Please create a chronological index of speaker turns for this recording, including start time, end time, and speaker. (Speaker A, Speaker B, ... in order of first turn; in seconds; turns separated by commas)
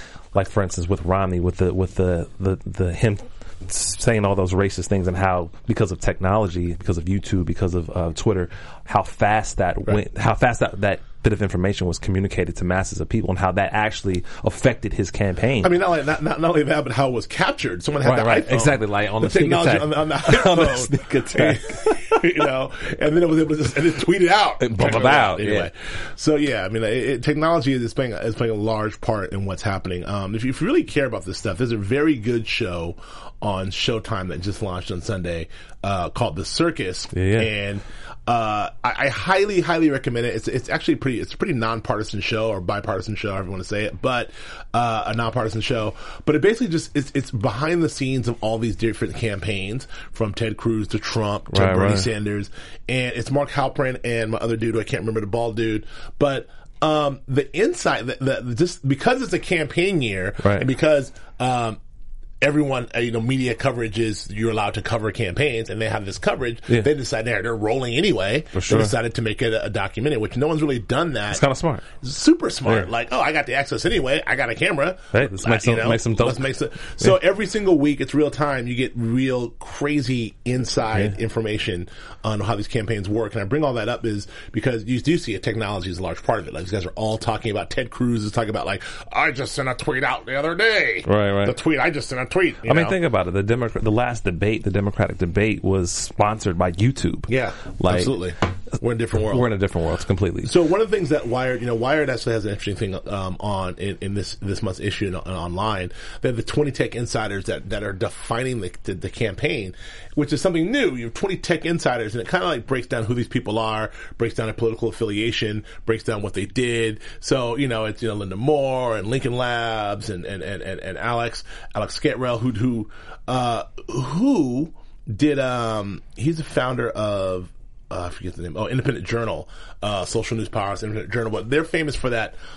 Speaker A: 0.3-15.7, Speaker B: 15.6-61.8, Speaker A: 18.0-22.2, Speaker A: 24.6-25.7, Speaker A: 37.1-37.5, Speaker A: 51.5-52.1, Speaker A: 60.4-60.7, Speaker B: 62.4-71.4, Speaker A: 68.5-69.0, Speaker A: 71.3-71.8, Speaker B: 72.0-93.0, Speaker A: 75.1-76.5, Speaker A: 91.1-91.6, Speaker A: 92.7-98.2, Speaker B: 97.3-99.5, Speaker A: 99.2-100.5, Speaker B: 100.5-132.3